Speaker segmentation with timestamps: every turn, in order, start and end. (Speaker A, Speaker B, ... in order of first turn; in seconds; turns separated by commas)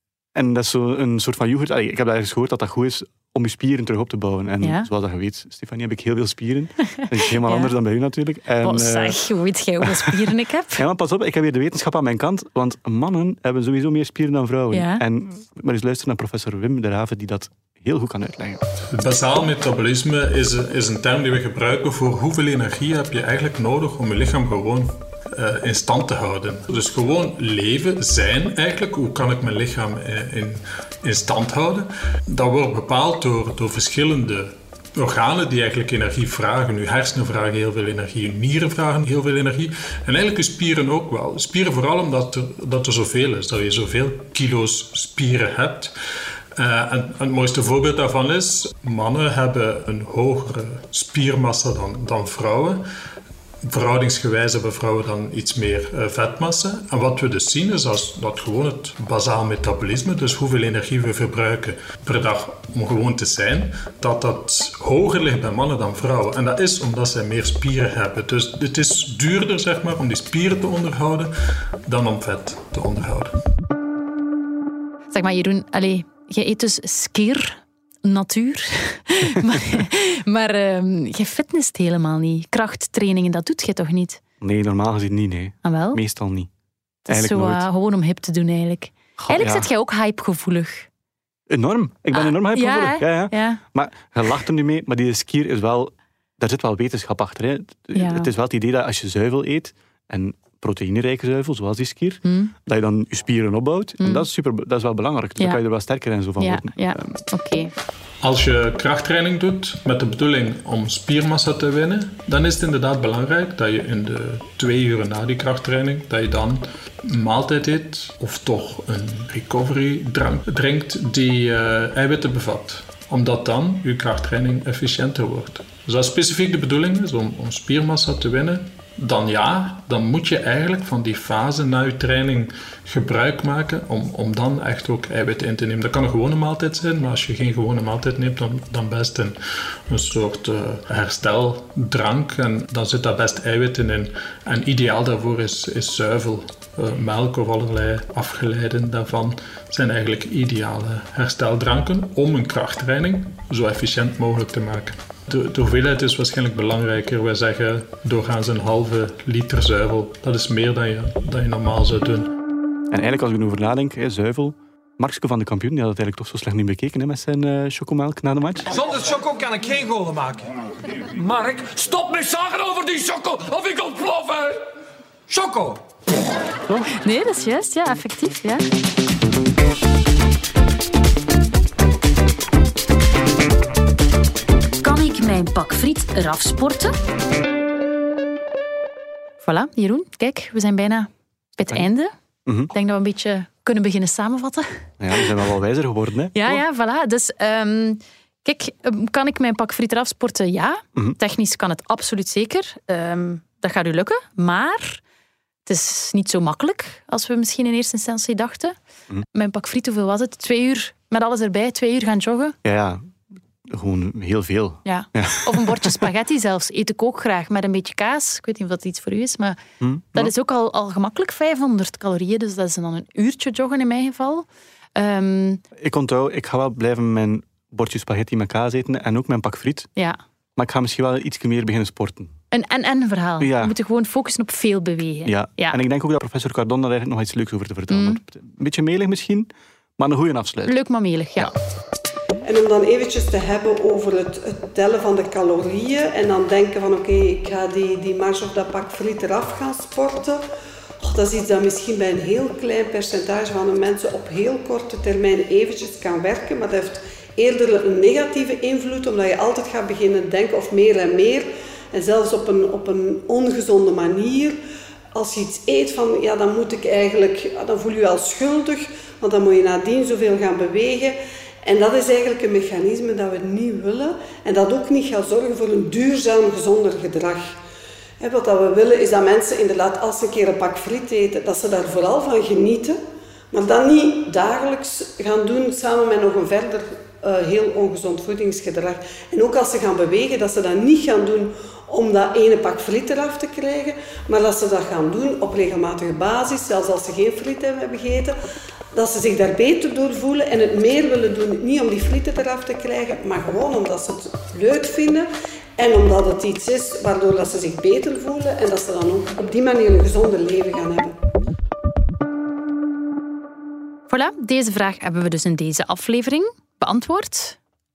Speaker A: 0.3-9.2, Speaker B: 4.6-4.9, Speaker B: 7.0-7.7, Speaker B: 8.6-10.8, Speaker A: 9.8-18.6, Speaker B: 14.7-15.0, Speaker C: 18.9-45.9, Speaker C: 46.5-52.8, Speaker C: 53.6-71.3, Speaker C: 71.9-73.3, Speaker B: 75.1-84.2, Speaker A: 84.4-86.5, Speaker B: 85.6-86.0, Speaker B: 87.1-90.9, Speaker A: 87.1-87.6, Speaker A: 89.2-89.7, Speaker A: 91.5-107.1, Speaker B: 92.1-93.6, Speaker B: 97.9-98.3, Speaker B: 102.2-102.5, Speaker B: 104.0-104.2, Speaker B: 106.4-107.7, Speaker C: 108.2-162.3, Speaker A: 162.9-168.7, Speaker D: 168.7-174.6, Speaker D: 175.3-175.8, Speaker B: 176.9-178.6, Speaker B: 184.8-186.9, Speaker B: 189.4-192.1, Speaker A: 192.4-192.7, Speaker B: 192.7-195.4, Speaker A: 195.0-196.6, Speaker B: 196.3-205.0, Speaker B: 205.7-208.8, Speaker B: 209.3-212.5, Speaker A: 212.6-213.1, Speaker A: 213.7-216.1, Speaker B: 214.8-219.6, Speaker A: 219.8-220.3, Speaker B: 220.1-225.6, Speaker A: 225.8-229.9, Speaker A: 230.6-232.3, Speaker B: 232.5-235.8, Speaker A: 233.4-233.7, Speaker A: 235.2-240.7, Speaker B: 237.9-238.2, Speaker B: 240.7-241.5, Speaker E: 242.4-250.4, Speaker E: 251.0-264.6, Speaker E: 265.1-277.6, Speaker E: 278.2-283.0, Speaker E: 283.5-298.3, Speaker E: 298.9-311.2, Speaker B: 314.1-317.6